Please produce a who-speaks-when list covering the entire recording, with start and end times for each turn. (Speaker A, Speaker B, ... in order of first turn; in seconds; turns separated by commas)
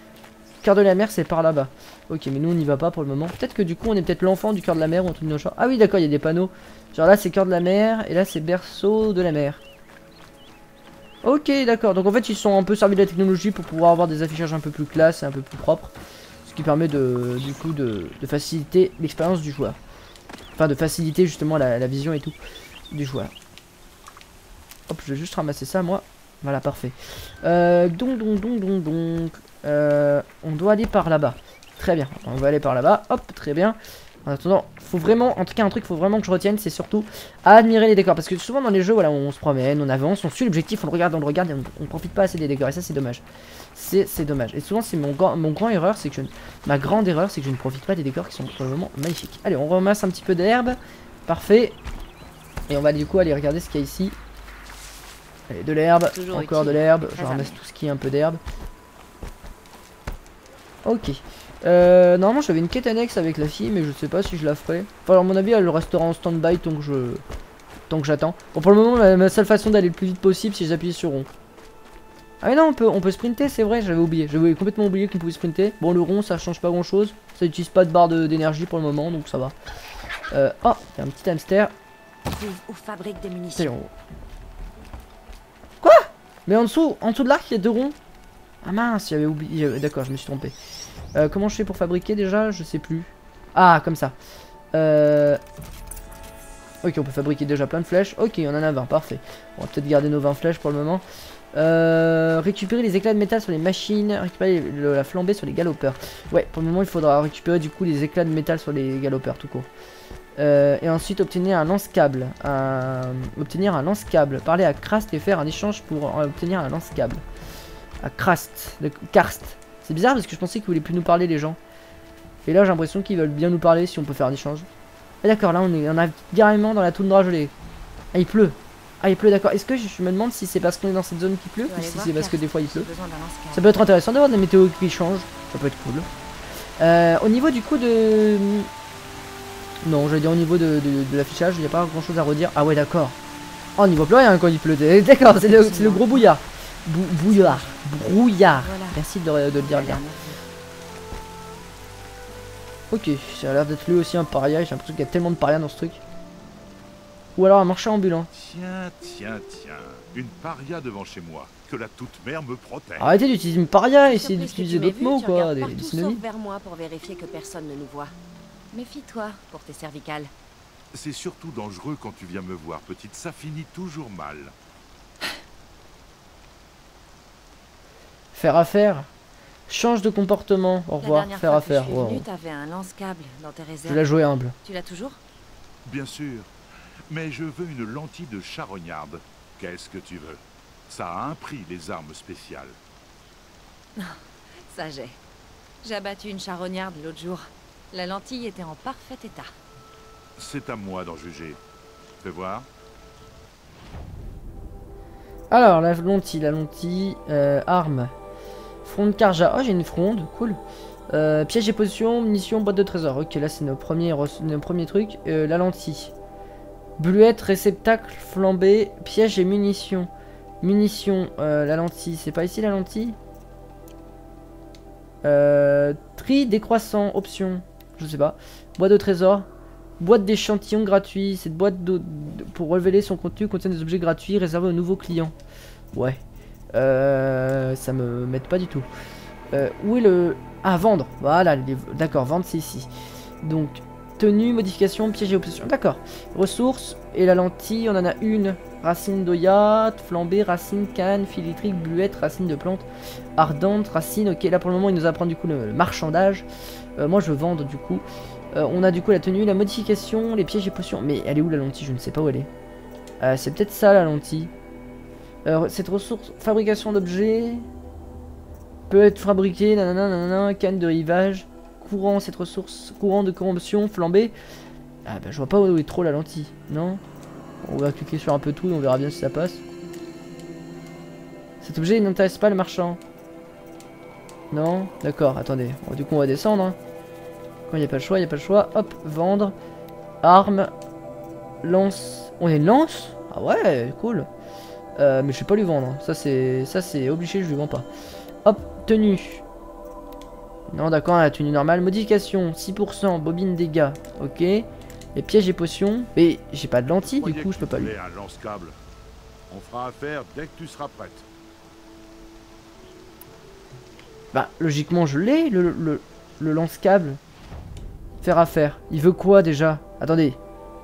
Speaker A: 0.6-9.6, Speaker A: 11.2-15.9, Speaker A: 16.5-19.8, Speaker A: 20.6-22.4, Speaker A: 22.9-23.3, Speaker A: 24.9-43.2, Speaker A: 43.8-51.8, Speaker A: 52.7-54.1, Speaker A: 55.5-58.4, Speaker B: 56.1-57.6, Speaker A: 60.9-67.2, Speaker A: 67.9-71.3, Speaker A: 72.4-79.5, Speaker A: 80.3-81.7, Speaker B: 82.3-83.7, Speaker A: 83.6-83.9, Speaker A: 85.8-87.9, Speaker A: 88.6-90.5, Speaker A: 91.1-94.1, Speaker A: 94.7-95.4, Speaker A: 96.8-101.0, Speaker A: 101.5-109.7, Speaker A: 110.4-117.2, Speaker A: 118.0-121.6, Speaker A: 122.5-124.7, Speaker A: 125.2-127.5, Speaker A: 128.1-132.9, Speaker B: 131.7-133.8, Speaker A: 133.5-136.1, Speaker A: 136.8-138.7, Speaker A: 139.8-143.2, Speaker A: 143.8-150.0, Speaker B: 145.2-146.3, Speaker B: 147.3-147.8, Speaker B: 148.5-149.0, Speaker B: 149.5-150.4, Speaker A: 152.9-156.0, Speaker A: 157.4-158.3, Speaker C: 158.3-163.1, Speaker A: 163.0-166.2, Speaker B: 164.0-168.1, Speaker B: 168.7-170.3, Speaker C: 170.9-174.5, Speaker A: 178.3-179.1, Speaker A: 179.7-182.2, Speaker B: 181.0-184.1, Speaker A: 183.9-184.5, Speaker B: 184.6-185.2, Speaker C: 185.8-186.5, Speaker C: 187.1-192.8, Speaker B: 194.0-195.2, Speaker B: 195.8-199.5, Speaker C: 200.4-201.6, Speaker C: 202.2-202.7, Speaker A: 205.5-208.1, Speaker A: 208.8-210.6, Speaker A: 211.1-216.1, Speaker A: 217.0-220.1, Speaker A: 220.6-223.2, Speaker A: 225.2-229.5, Speaker A: 230.0-235.3, Speaker A: 235.9-236.2, Speaker A: 236.7-238.9, Speaker A: 239.5-242.9, Speaker A: 243.4-252.8, Speaker A: 253.4-256.5, Speaker A: 257.0-262.5, Speaker A: 263.2-264.5, Speaker A: 265.4-267.6, Speaker A: 268.9-274.3, Speaker A: 275.1-277.0, Speaker A: 277.6-279.6, Speaker A: 281.6-283.0, Speaker A: 284.5-286.8, Speaker A: 287.7-289.6, Speaker A: 290.2-290.7, Speaker A: 291.6-294.3, Speaker A: 295.0-297.9, Speaker A: 298.4-299.4, Speaker A: 300.7-307.9, Speaker C: 307.0-308.8, Speaker C: 309.5-311.2, Speaker A: 314.3-317.2, Speaker A: 318.2-320.4